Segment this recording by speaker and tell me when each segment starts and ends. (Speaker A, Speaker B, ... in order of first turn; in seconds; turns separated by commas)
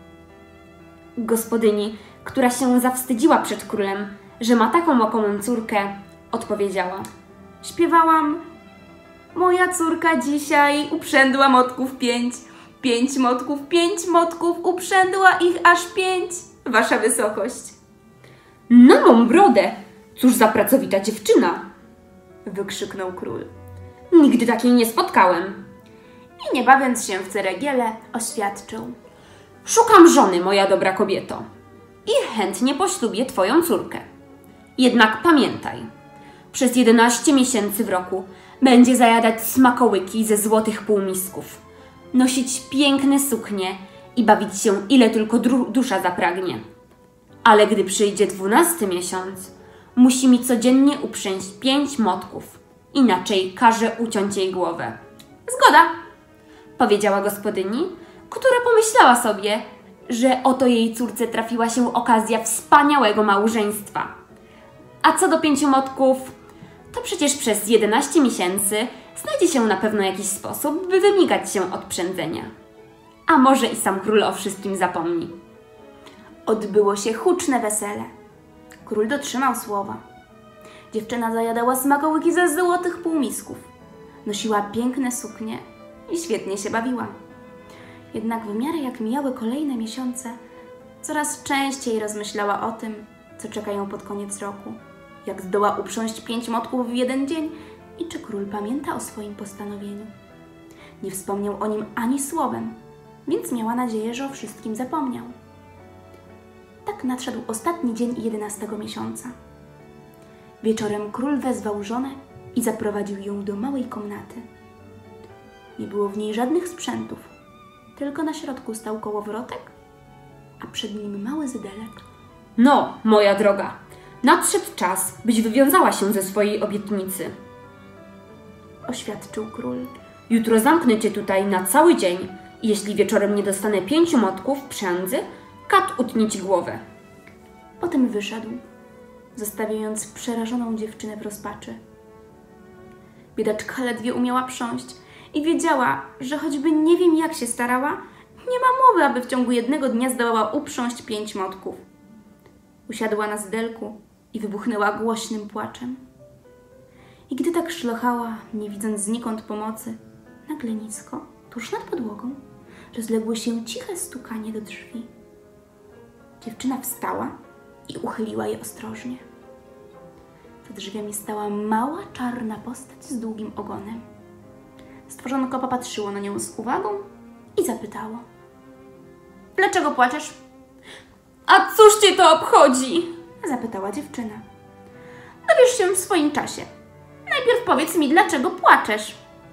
Speaker A: 1.2-7.1, Speaker B: 7.6-8.4, Speaker B: 9.3-17.7, Speaker A: 18.7-21.6, Speaker B: 22.4-23.5, Speaker A: 24.1-25.6, Speaker B: 26.4-28.9, Speaker A: 29.6-31.4, Speaker A: 32.0-34.0, Speaker A: 34.8-35.9, Speaker A: 36.5-41.6, Speaker A: 42.1-46.6, Speaker A: 47.4-55.0, Speaker B: 55.5-55.9, Speaker A: 56.8-64.1, Speaker A: 65.0-66.3, Speaker A: 66.9-72.5, Speaker A: 73.3-75.3, Speaker B: 76.5-78.1, Speaker B: 78.8-80.0, Speaker B: 80.9-83.7, Speaker B: 84.2-87.1, Speaker B: 88.1-90.3, Speaker B: 91.0-100.1, Speaker B: 101.0-105.3, Speaker B: 106.8-109.3, Speaker B: 110.6-114.4, Speaker B: 115.8-117.3, Speaker B: 118.0-119.7, Speaker B: 120.6-122.0, Speaker A: 122.6-127.3, Speaker B: 128.8-129.9, Speaker A: 130.3-136.8, Speaker B: 137.8-138.6, Speaker B: 139.3-141.8, Speaker B: 143.3-151.8, Speaker B: 152.9-156.0, Speaker B: 157.3-162.4, Speaker B: 162.9-165.1, Speaker B: 166.4-167.3, Speaker B: 167.9-169.2, Speaker B: 170.6-174.0, Speaker B: 175.1-178.2, Speaker B: 179.6-180.4, Speaker A: 181.5-183.1, Speaker B: 183.4-184.4, Speaker B: 185.4-186.7, Speaker B: 187.3-189.2